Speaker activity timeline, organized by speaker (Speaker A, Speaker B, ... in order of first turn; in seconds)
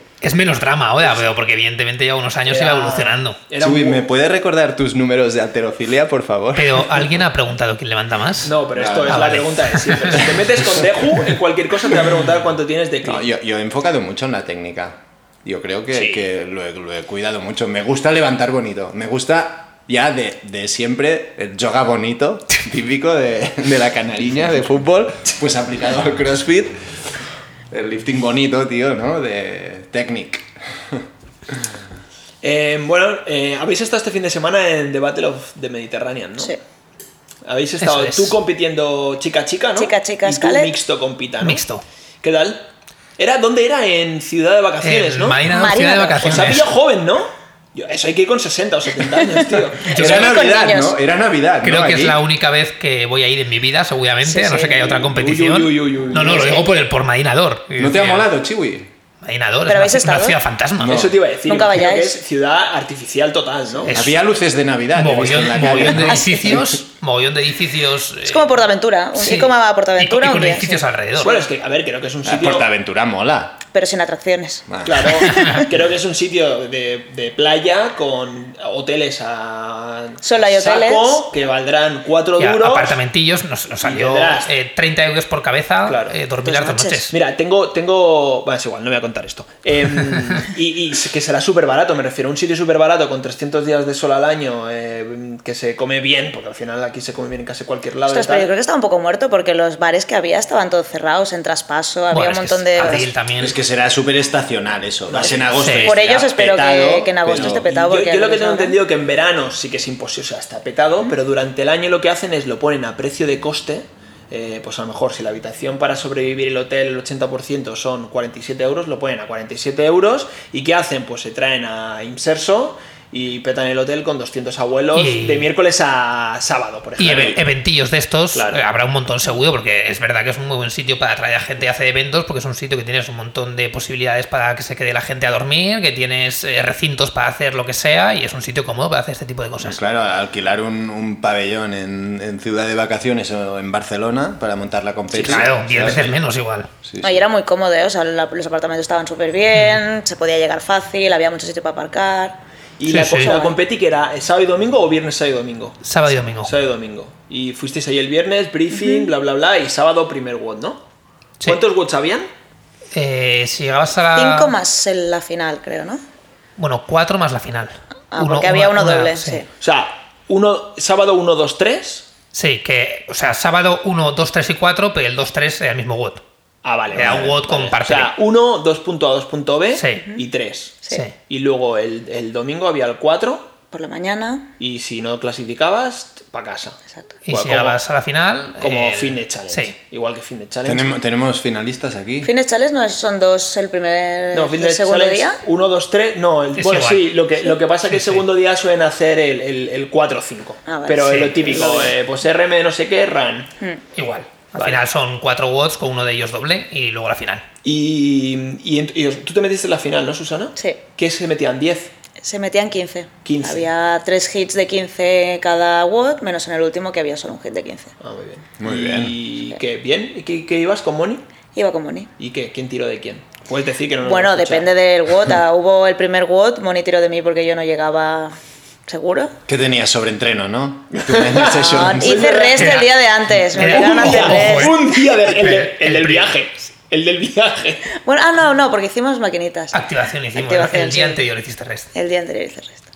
Speaker A: 0.2-3.4, 6.5-10.2, 37.8-38.4, 41.4-41.8, 44.8-46.7, 49.9-50.3, 51.6-58.3, 59.2-61.0, 63.8-64.1, 64.9-68.6, 69.1-71.5, 75.3-75.6, 82.4-87.1, 102.1-103.5, 105.6-106.0, 124.9-125.5, 127.0-139.8, 145.2-146.7, 149.5-149.8, 152.9-153.3, 155.8-156.5, 162.9-164.6, 166.6-169.4, 172.3-176.2, 176.9-178.1, 179.8-180.1, 187.2-189.7, 196.6-197.2, 197.9-198.2, 201.1-201.6, 203.9-207.4, 232.5-236.3, 239.7-241.9
Speaker B: 2.5-4.0, 8.4-13.3, 15.9-16.3, 32.4-36.6, 37.4-41.6, 42.2-45.4, 46.2-50.4, 55.0-56.6, 60.8-64.0, 71.2-72.7, 74.8-83.0, 83.8-84.5, 85.8-86.2, 87.1-98.5, 105.1-105.7, 107.3-127.4, 128.3-128.6, 145.1-145.4, 152.8-155.8, 156.4-160.8, 161.4-162.3, 169.6-172.1, 176.6-183.5, 184.6-187.8, 188.6-190.9, 194.3-203.5, 204.5-204.8, 207.6-211.9, 213.2-213.7, 218.0-221.2, 222.2-224.7, 230.9-232.9, 233.5-237.9
Speaker C: 3.6-7.0, 8.8-9.2, 10.2-10.7, 13.0-26.8, 27.7-31.5, 49.9-52.2, 57.8-58.9, 60.8-61.2, 63.9-66.8, 72.2-73.6, 74.7-75.1, 103.4-107.6, 139.6-146.2, 146.8-147.2, 190.6-192.3, 218.6-219.2, 229.5-232.4
Speaker D: 39.8-40.7, 45.5-46.6, 50.0-51.0, 54.2-55.0, 59.7-60.4, 61.5-62.2, 65.9-66.5, 68.2-70.8, 73.7-75.7, 80.2-81.2, 86.4-87.0, 98.1-103.1, 105.8-108.8, 147.0-152.4, 153.1-153.6, 158.7-159.1, 164.1-166.0, 168.1-169.5, 183.7-184.5, 192.2-195.4, 200.7-201.9, 212.2-217.9, 221.5-222.1, 224.0-229.3, 231.5-234.8, 238.0-239.8, 240.3-241.2, 241.9-242.8